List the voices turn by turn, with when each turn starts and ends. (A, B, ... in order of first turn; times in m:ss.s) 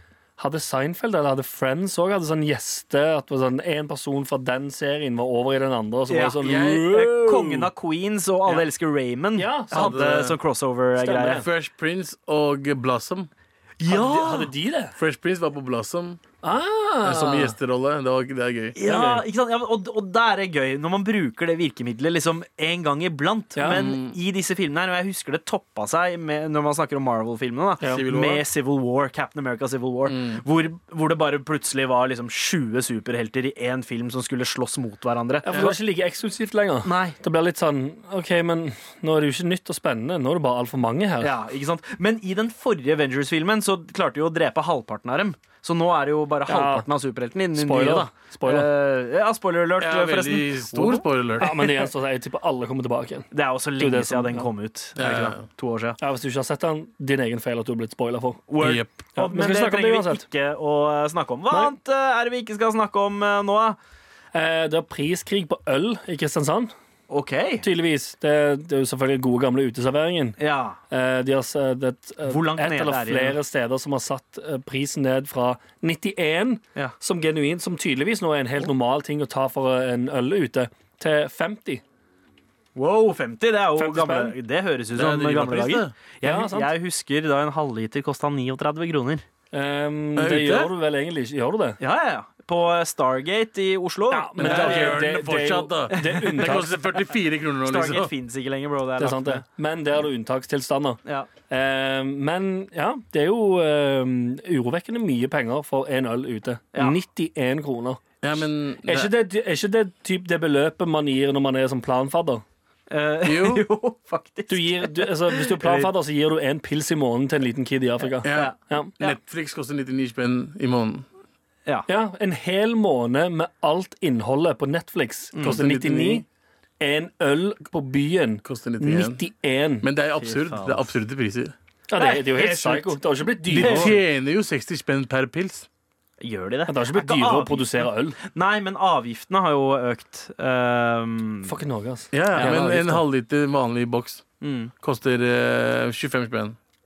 0:00.4-0:07.6 A
0:06.1-0:11.4 B
0:06.4-0:07.4 C
0:09.4-0:10.0 A
0:09.7-0:10.4 C
0:11.0-0:11.4 A
0:11.3-0:13.3 C
0:13.8-0:14.5 B
0:13.9-0:14.9 A
0:15.0-0:16.2 C
0:16.4-0:17.6 A
0:17.0-0:18.8 C
0:18.7-0:35.5 B
0:18.8-0:19.2 A
0:23.6-0:23.9 A
0:23.6-0:24.2 C
0:27.9-0:28.4 C
0:30.1-0:30.4 C
0:35.4-0:41.3 A
0:36.8-0:37.2 B
0:41.2-0:51.0 B
0:46.5-0:46.9 A
0:47.5-0:48.7 A
0:49.8-0:51.6 C
0:51.4-0:54.5 A
0:53.3-0:56.0 B
0:55.0-0:55.4 C
0:56.0-0:58.4 A
0:58.5-1:03.8 B
0:58.6-0:58.9 C
0:59.1-1:00.2 A
1:01.5-1:01.7 A
1:04.3-1:06.7 A
1:07.1-1:07.6 B
1:07.6-1:10.4 A
1:10.4-1:10.8 B
1:10.9-1:21.8 A
1:12.2-1:13.4 B
1:22.8-1:29.2 B
1:23.8-1:24.4 A
1:24.9-1:25.9 C
1:26.2-1:26.7 A
1:29.5-1:31.8 A
1:30.2-1:30.7 C
1:31.8-1:35.3 B
1:34.1-1:36.8 A
1:34.4-1:38.1 C
1:35.9-1:36.5 B
1:37.6-1:39.4 B
1:39.0-1:48.1 A
1:48.2-1:49.1 C
1:48.8-1:52.4 A
1:52.9-1:55.9 B
1:53.2-1:53.6 C
1:54.5-1:58.9 A
1:58.1-1:59.2 B
1:58.2-2:01.0 C
2:01.9-2:06.2 A
2:05.3-2:05.6 B
2:05.4-2:06.2 C
2:06.8-2:09.8 A
2:08.4-2:09.2 C
2:09.8-2:11.5 C
2:10.2-2:10.9 B
2:11.9-2:14.0 A
2:12.0-2:13.0 B
2:13.5-2:14.0 B
2:13.5-2:15.7 C
2:16.2-2:21.5 B
2:16.7-2:18.2 A
2:21.4-2:23.0 A
2:22.1-2:24.2 C
2:24.4-2:24.7 B
2:24.8-2:26.6 C